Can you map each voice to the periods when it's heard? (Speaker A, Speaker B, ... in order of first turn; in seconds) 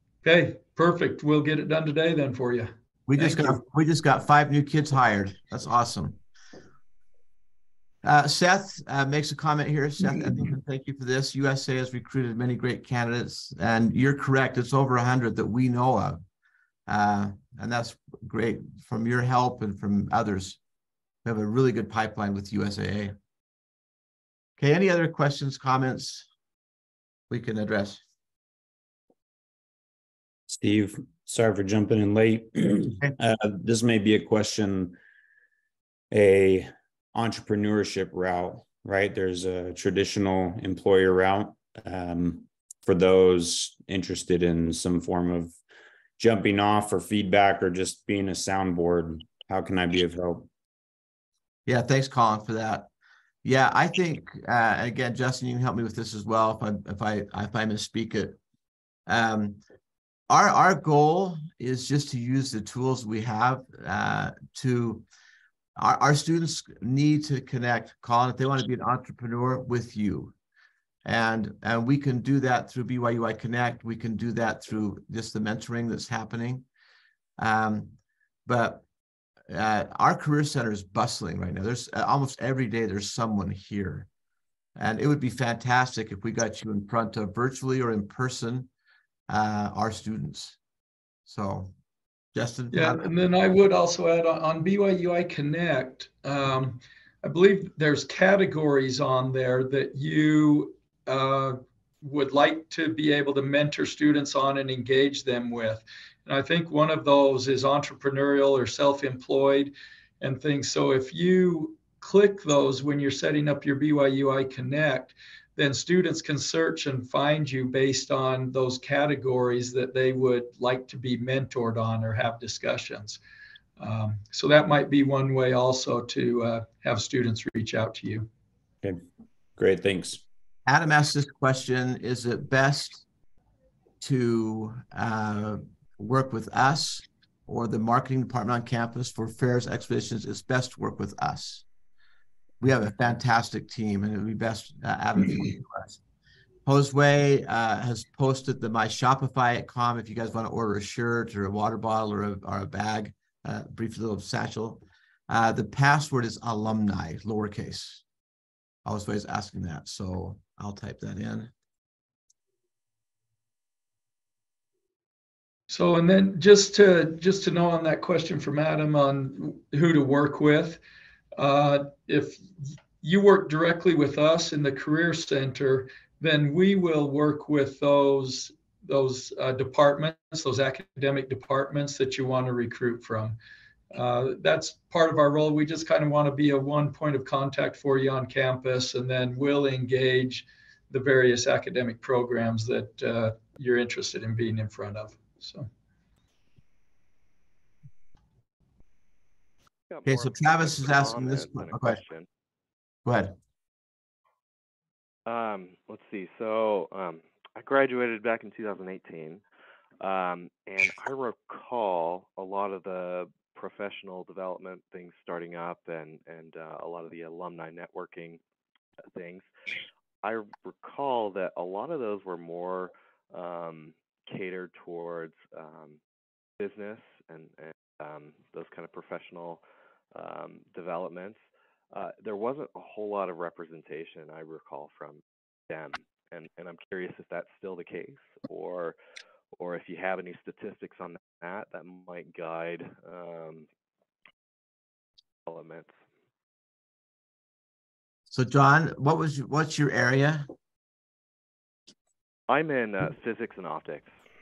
Speaker A: 0.2-3.6, 92.7-123.2, 123.8-128.3, 165.7-170.8, 171.3-172.4, 173.0-183.4, 183.9-195.7
Speaker B: 3.1-6.2, 8.0-16.2, 16.9-20.6, 21.2-23.1, 24.6-26.3, 27.3-28.0, 51.6-52.9, 53.4-58.4, 59.1-59.6, 60.3-65.0, 65.8-70.3, 71.0-76.6, 77.4-78.8, 79.5-84.1, 84.8-88.7, 89.3-90.6, 91.2-91.7, 92.3-93.1, 130.7-133.0, 134.0-141.6, 142.6-146.0, 146.7-158.0, 158.8-161.5, 200.0-202.0, 203.1-203.3, 248.3-250.5
Speaker C: 30.5-35.0, 36.1-45.6, 46.2-50.5, 129.6-130.2
Speaker D: 199.9-202.3, 205.2-209.4, 210.0-218.4, 219.1-219.5, 220.2-226.0, 226.6-229.6, 230.1-231.4, 231.9-238.9, 239.5-243.7, 245.4-245.9, 252.5-254.1